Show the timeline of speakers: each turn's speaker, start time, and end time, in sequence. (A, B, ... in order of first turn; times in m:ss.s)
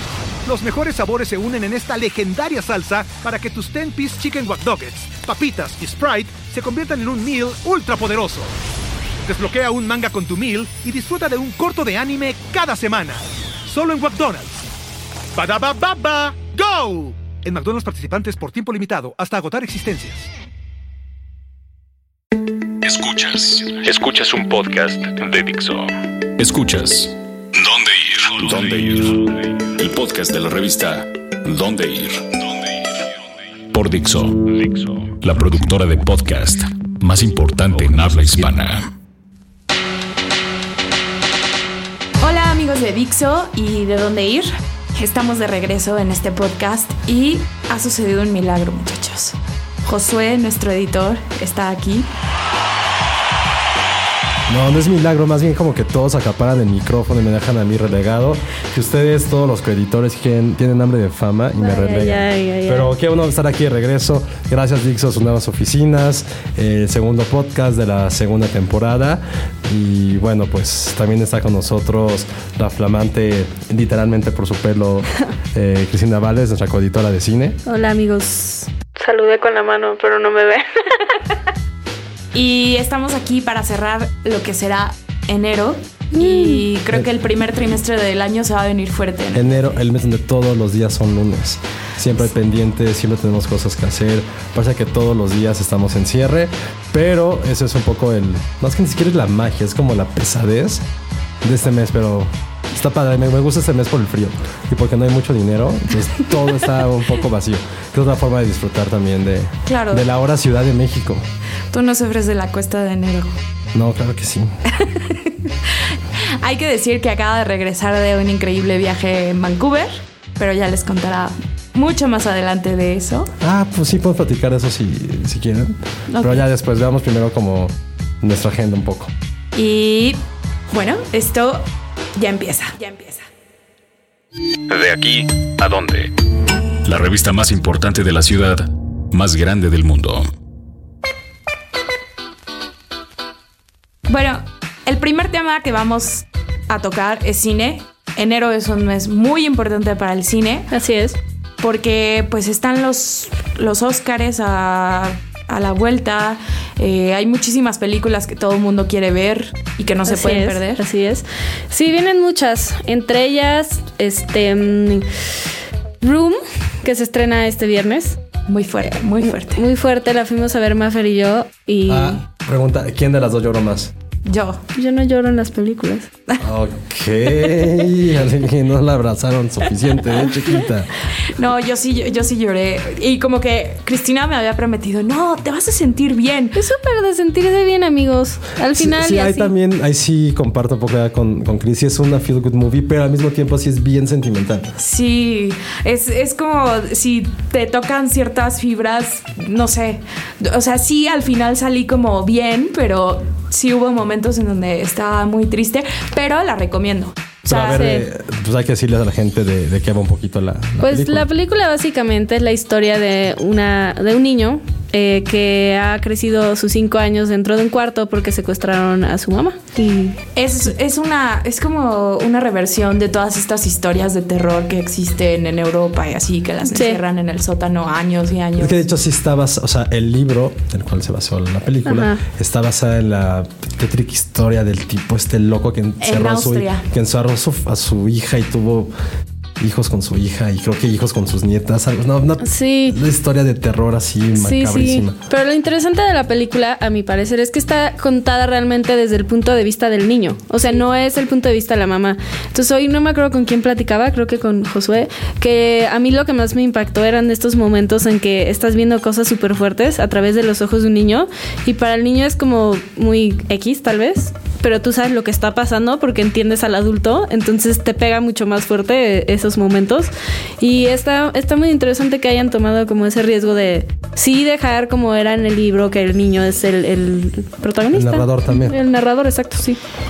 0:00.4-0:08.5 A
0:09.2-0:14.6 A
0:15.4-0:20.3 A
0:22.8-0:32.8 B
0:33.7-0:38.9 B
0:42.2-0:52.1 C
0:54.5-1:17.6 D
1:01.6-1:02.9 E
1:17.7-1:20.6 E
1:22.3-1:29.8 C
1:26.2-1:26.6 E
1:29.3-1:40.8 D
1:41.4-1:51.2 D
1:49.7-1:50.1 C
1:51.7-1:53.4 C
1:53.7-1:54.5 D
1:54.7-2:03.3 C
2:03.4-2:09.1 D
2:06.1-2:06.4 C
2:09.5-2:11.6 C
2:12.2-2:13.3 C
2:14.7-2:16.1 B
2:16.8-2:20.3 B
2:24.1-2:30.7 C
2:30.7-2:31.2 E
2:31.6-2:40.8 C
2:40.1-2:45.1 E
2:46.0-2:48.2 E
2:48.5-2:49.6 C
2:49.2-2:52.2 E
2:51.9-2:53.9 D
2:54.3-2:54.6 C
2:54.8-2:56.1 E
2:56.4-3:00.9 D
3:01.2-3:06.6 C
3:06.6-3:09.5 E
3:08.8-3:14.7 D
3:14.8-3:27.8 C
3:27.5-3:31.3 D
3:27.7-3:28.1 E
3:30.8-3:40.2 E
3:40.4-3:48.9 C
3:46.7-3:47.0 E
3:48.6-3:58.9 D
3:51.9-3:52.2 E
3:56.0-3:56.8 C
3:59.6-4:05.2 D
4:02.4-4:03.0 E
4:04.4-4:39.8 E
4:37.9-4:38.8 D